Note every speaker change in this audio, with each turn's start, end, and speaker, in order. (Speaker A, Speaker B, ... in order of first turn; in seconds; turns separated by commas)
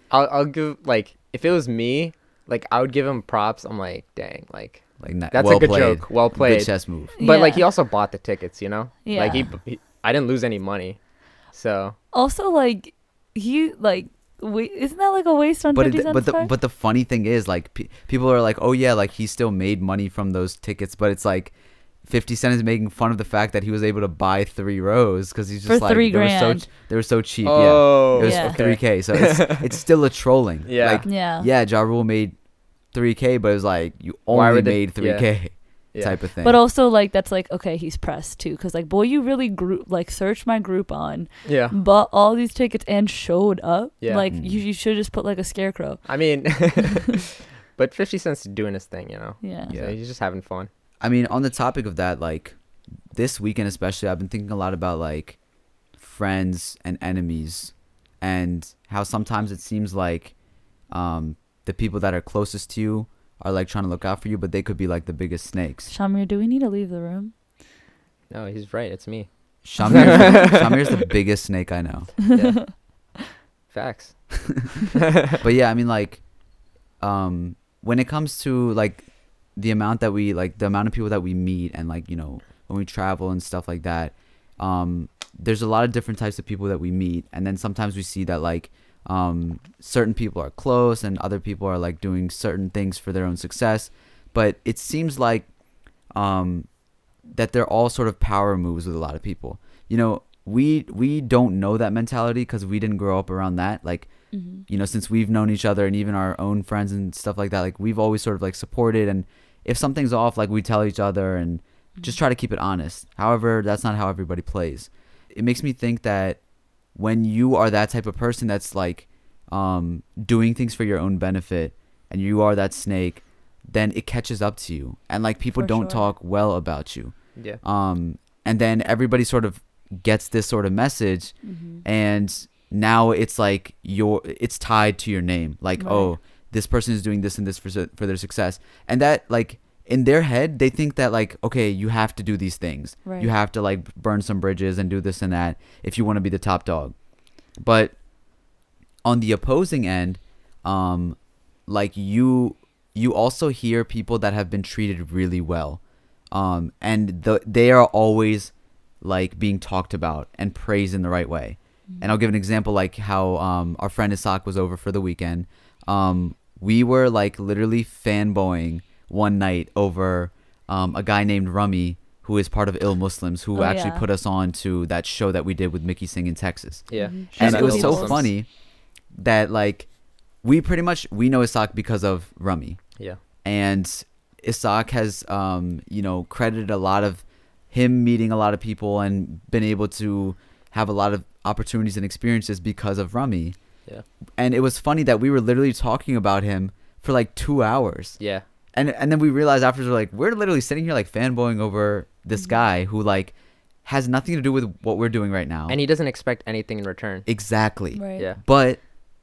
Speaker A: 0.1-11.0, Speaker B: 5.0-7.1, Speaker C: 7.2-7.7, Speaker C: 9.0-9.5, Speaker A: 11.5-11.9, Speaker C: 12.1-16.5, Speaker B: 15.7-21.5, Speaker B: 22.0-32.4, Speaker C: 25.7-26.6, Speaker A: 27.4-29.7, Speaker C: 28.2-28.6, Speaker A: 30.6-31.1, Speaker C: 31.1-31.5, Speaker B: 32.9-36.6, Speaker A: 34.3-35.3, Speaker C: 36.4-46.0, Speaker A: 41.4-41.8, Speaker A: 44.0-44.3, Speaker B: 44.3-44.6, Speaker A: 46.0-50.7, Speaker C: 49.4-49.7, Speaker B: 49.7-50.0, Speaker B: 51.0-52.5, Speaker B: 53.1-55.4, Speaker B: 56.0-60.3, Speaker B: 60.9-65.9, Speaker C: 65.9-67.3, Speaker A: 68.3-69.3, Speaker B: 69.6-72.1, Speaker A: 69.8-70.9, Speaker C: 69.9-70.3, Speaker C: 72.3-72.7, Speaker A: 72.3-72.6, Speaker A: 73.7-74.3, Speaker A: 75.0-75.4, Speaker B: 75.3-76.2, Speaker B: 77.0-95.5, Speaker B: 96.1-96.7, Speaker B: 97.3-104.1, Speaker C: 104.3-104.6, Speaker B: 104.7-116.4, Speaker B: 116.9-146.9, Speaker C: 125.6-126.1, Speaker C: 131.4-131.8, Speaker C: 135.8-136.1, Speaker C: 143.0-143.3, Speaker B: 147.6-147.9, Speaker B: 149.0-155.8, Speaker B: 156.3-178.5, Speaker C: 173.5-174.0, Speaker A: 176.9-178.2, Speaker C: 176.9-178.2, Speaker B: 179.1-179.9, Speaker B: 180.4-182.8, Speaker B: 183.4-193.6, Speaker B: 194.4-198.2, Speaker B: 198.7-205.8, Speaker A: 205.7-207.3, Speaker B: 207.3-208.8, Speaker C: 207.9-208.3